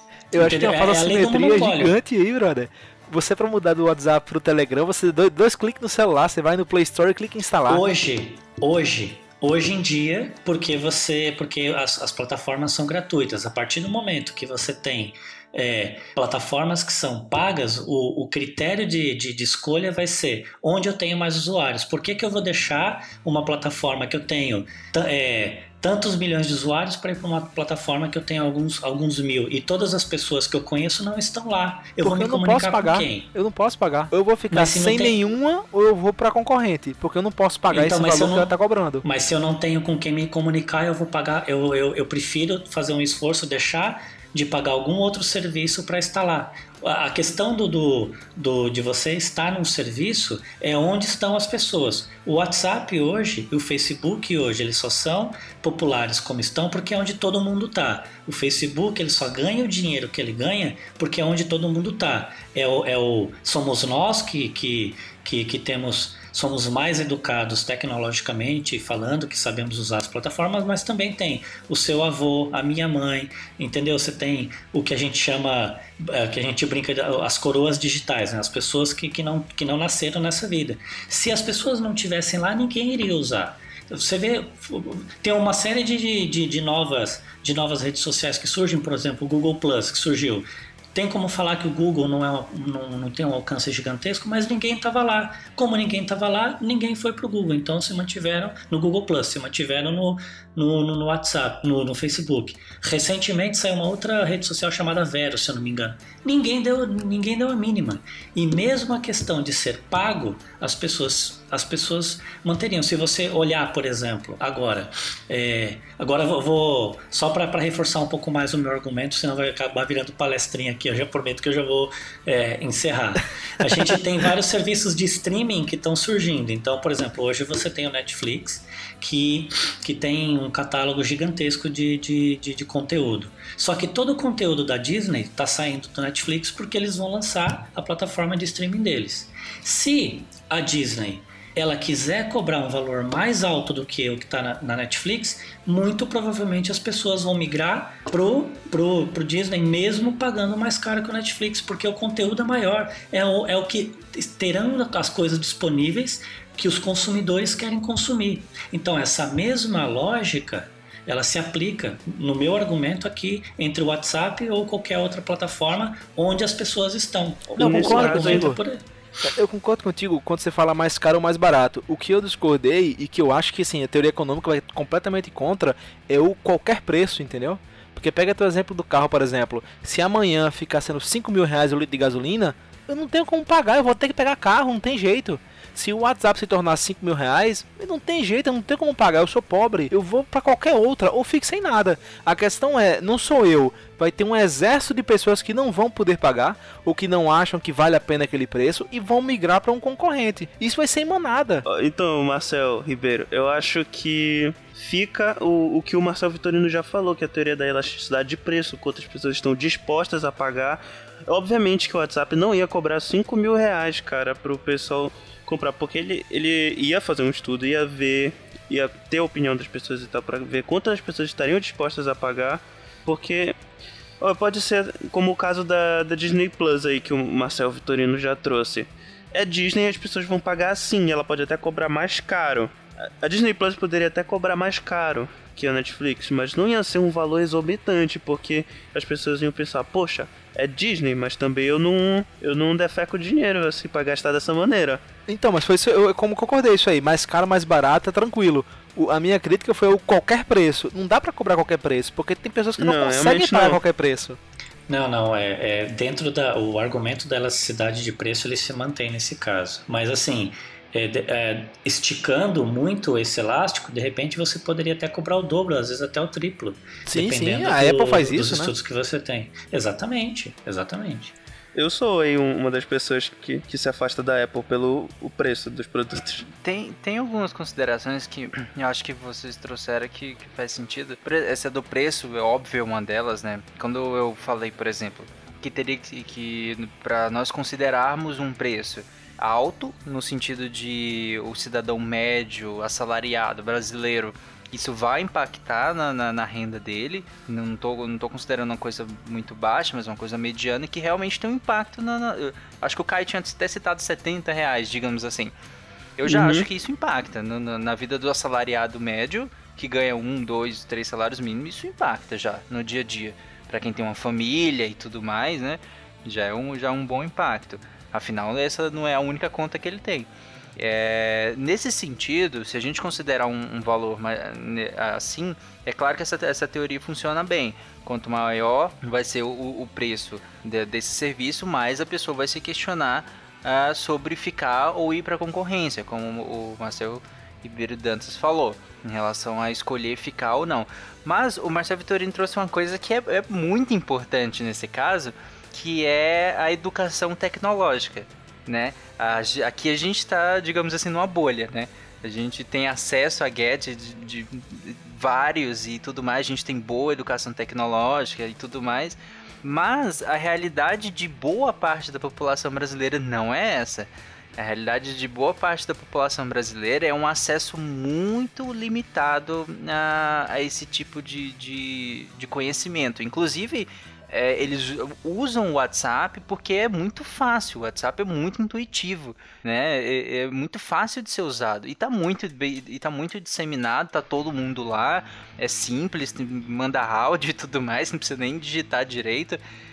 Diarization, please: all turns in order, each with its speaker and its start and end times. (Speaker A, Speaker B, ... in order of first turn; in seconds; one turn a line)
Speaker A: 0.3-7.8
Speaker B: 0.3-2.0
Speaker B: 7.7-33.3
Speaker A: 32.0-39.0
Speaker B: 34.5-35.2
Speaker B: 37.7-168.8
Speaker C: 167.6-168.5
Speaker A: 167.6-168.6
Speaker A: 169.2-201.7
Speaker C: 201.7-223.6
Speaker C: 224.2-245.0
Speaker A: 245.3-254.4
Speaker C: 252.8-253.8
Speaker B: 254.9-271.4
Speaker A: 267.1-268.7
Speaker C: 271.8-276.4
Speaker D: 276.6-305.5
Speaker D: 306.2-389.6
Speaker C: 306.3-306.7